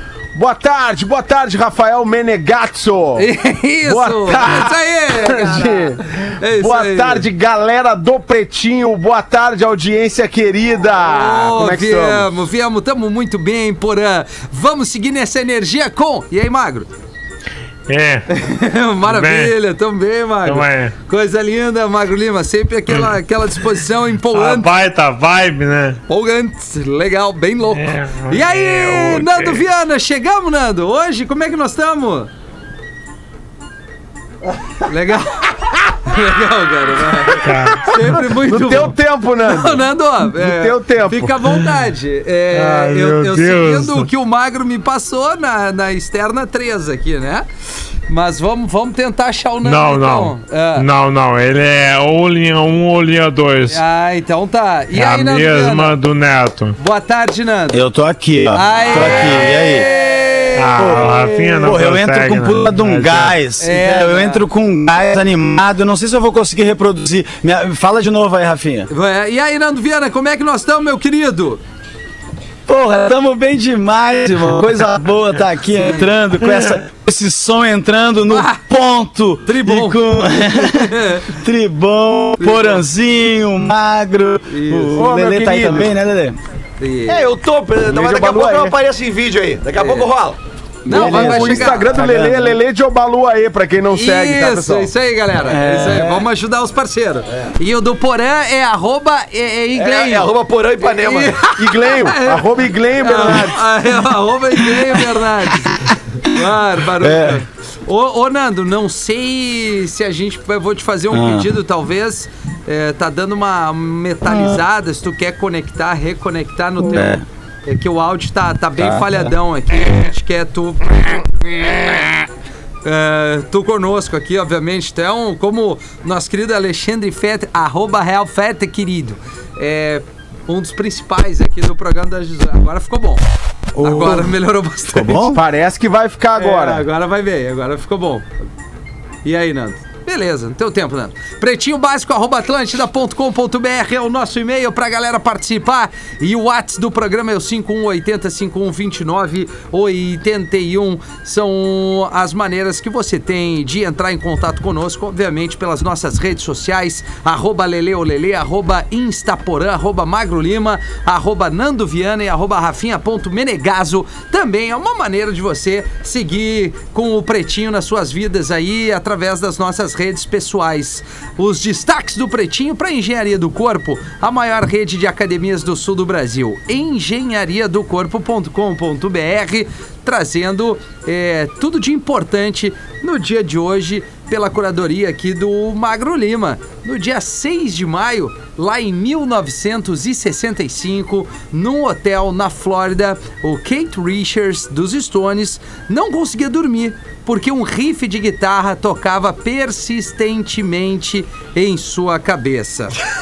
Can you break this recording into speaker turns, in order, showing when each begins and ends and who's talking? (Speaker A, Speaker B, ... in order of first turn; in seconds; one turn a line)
Speaker A: 0.3-3.3
Speaker B: 3.2-7.2
Speaker A: 3.8-12.3
Speaker B: 11.1-16.9
Speaker C: 17.9-18.2
Speaker B: 18.3-24.7
Speaker C: 19.0-19.5
Speaker C: 20.4-20.9
Speaker C: 24.3-26.0
Speaker B: 26.1-32.3
Speaker C: 27.7-29.6
Speaker B: 34.8-35.5
Speaker B: 36.0-47.4
Speaker C: 37.4-37.9
Speaker A: 38.3-41.3
Speaker C: 42.5-44.1
Speaker B: 48.1-50.9
Speaker C: 49.6-53.8
Speaker B: 53.7-55.9
Speaker C: 54.9-56.8
Speaker B: 56.8-57.8
Speaker D: 57.7-59.9
Speaker B: 58.5-60.9
Speaker C: 60.6-63.3
Speaker D: 60.8-68.9
Speaker B: 63.6-64.5
Speaker B: 68.9-71.6
Speaker D: 72.7-86.4
Speaker B: 75.8-76.1
Speaker B: 78.3-78.6
Speaker B: 79.4-81.2
Speaker B: 82.4-82.8
Speaker B: 84.5-85.0
Speaker A: 84.9-85.9
Speaker B: 86.8-87.3
Speaker E: 87.1-90.4
Speaker A: 87.8-88.8
Speaker B: 89.8-90.1
Speaker B: 90.8-92.0
Speaker D: 90.9-92.6
Speaker A: 90.9-94.9
Speaker B: 93.9-100.3
Speaker D: 95.4-96.2
Speaker E: 99.7-101.4
Speaker B: 100.8-122.1
Speaker A: 101.5-103.6
Speaker D: 107.0-107.4
Speaker D: 111.1-111.5
Speaker D: 114.3-114.6
Speaker D: 116.8-117.2
Speaker D: 118.8-119.3
Speaker B: 122.8-133.2
Speaker D: 133.7-134.3
Speaker B: 133.8-135.2
Speaker D: 134.9-135.4
Speaker A: 135.3-136.8
Speaker B: 136.3-138.2
Speaker B: 139.2-202.9